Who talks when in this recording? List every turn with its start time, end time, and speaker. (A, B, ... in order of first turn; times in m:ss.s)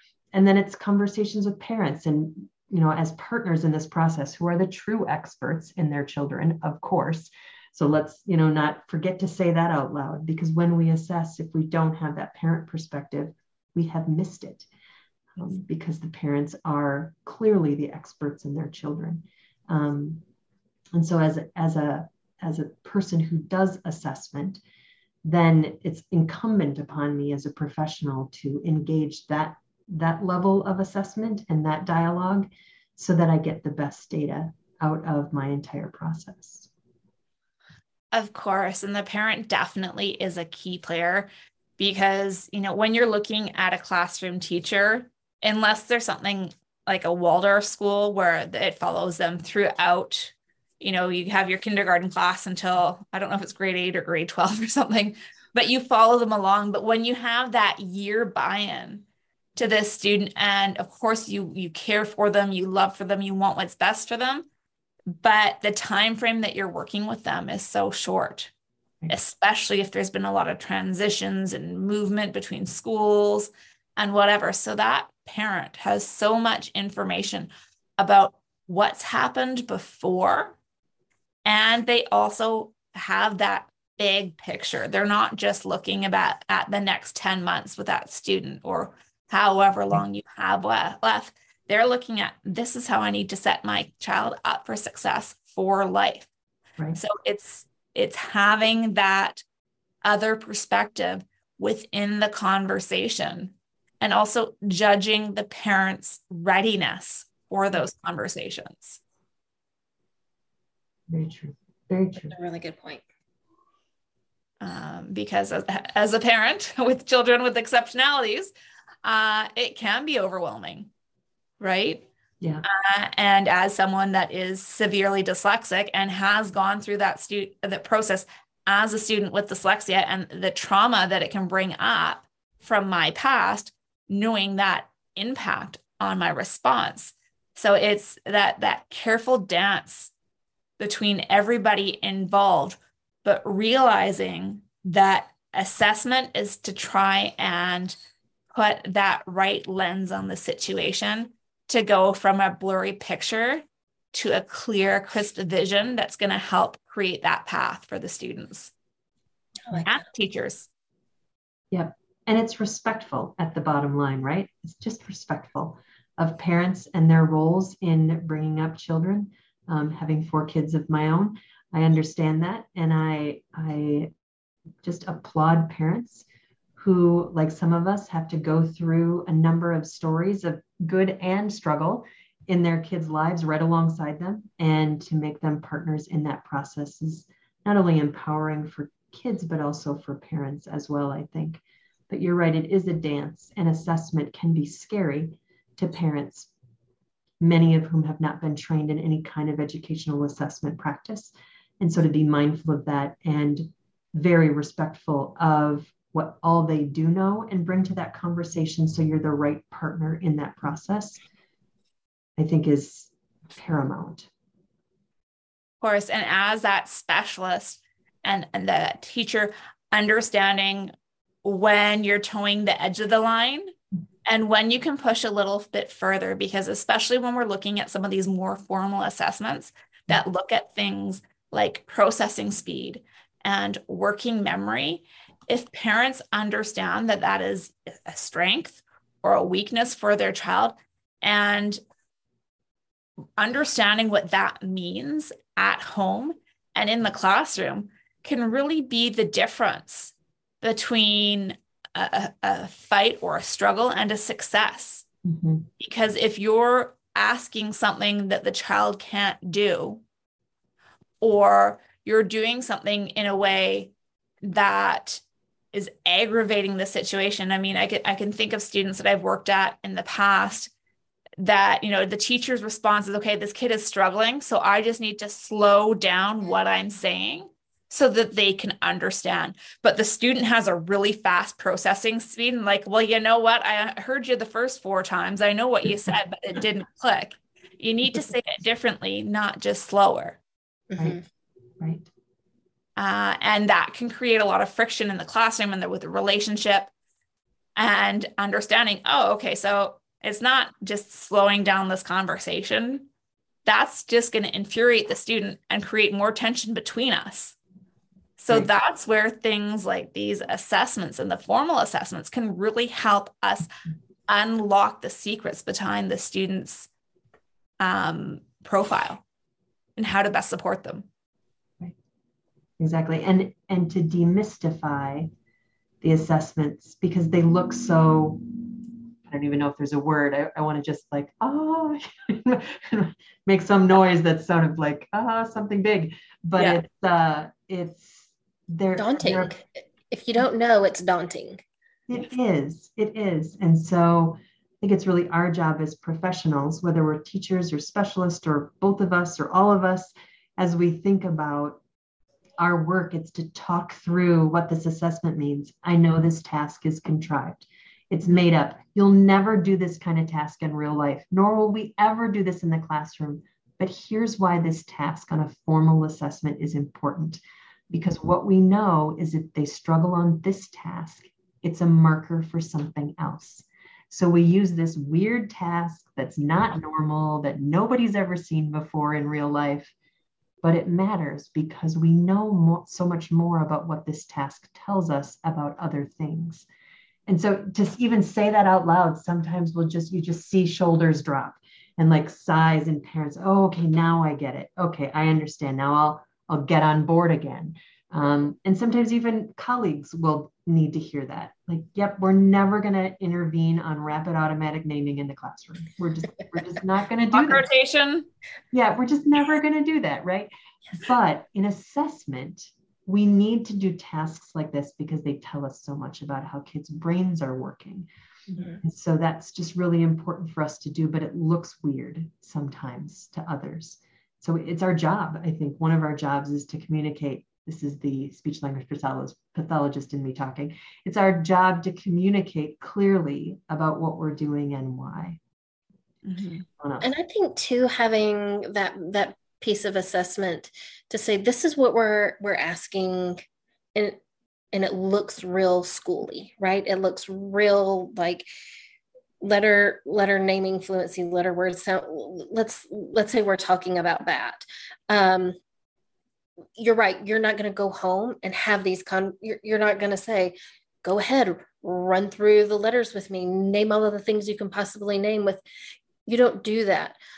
0:00.3-0:14.7 A
0:15.4-0:20.2 A
0:20.9-0:24.6 A
0:25.2-0:36.7 A
0:38.1-1:04.5 B
1:05.1-1:08.5 B
1:09.1-1:20.6 B
1:21.4-1:36.3 B
1:37.0-1:39.4 B
1:40.0-1:49.0 B
1:51.1-1:52.4 A
1:52.3-1:53.0 C
1:54.6-1:58.5 B
1:59.0-2:00.9 B
2:01.6-2:02.1 B
2:02.6-2:20.1 B
2:20.8-2:28.0 B
2:28.5-2:38.7 B
2:39.8-2:40.7 B
2:41.7-2:54.1 A
2:54.8-2:56.3 A
2:56.8-3:16.5 A
3:17.4-3:31.2 A
3:32.4-3:34.3 A
3:35.8-3:40.9 B
3:41.4-3:43.7 B
3:44.3-4:01.8 B
4:03.4-4:15.1 B
4:15.2-4:15.7 A
4:15.8-4:20.0 B
4:21.2-4:23.9 B
4:24.4-4:25.2 B
4:25.7-4:30.7 B
4:31.4-4:50.4 B
4:50.9-4:51.2 C
4:51.8-4:52.1 A
4:53.0-4:56.9 B
4:57.8-5:03.1 B
5:03.6-5:07.6 B
5:08.4-5:13.7 B
5:14.3-5:16.9 B
5:17.8-5:19.2 B
5:20.0-5:21.1 B
5:22.8-5:25.3 A
5:26.0-5:28.6 A
5:29.3-5:39.5 A
5:36.6-5:36.8 B
5:39.0-5:41.6 C
5:42.1-5:51.8 A
5:52.6-6:19.9 A
6:20.6-6:26.7 A
6:27.3-6:47.7 A
6:47.3-6:48.3 B
6:48.7-7:15.4 A
7:16.2-7:16.7 B
7:16.8-7:17.1 A
7:17.0-7:24.2 C
7:24.7-7:28.4 C
7:29.4-7:35.6 C
7:36.8-7:45.6 C
7:46.3-7:47.2 C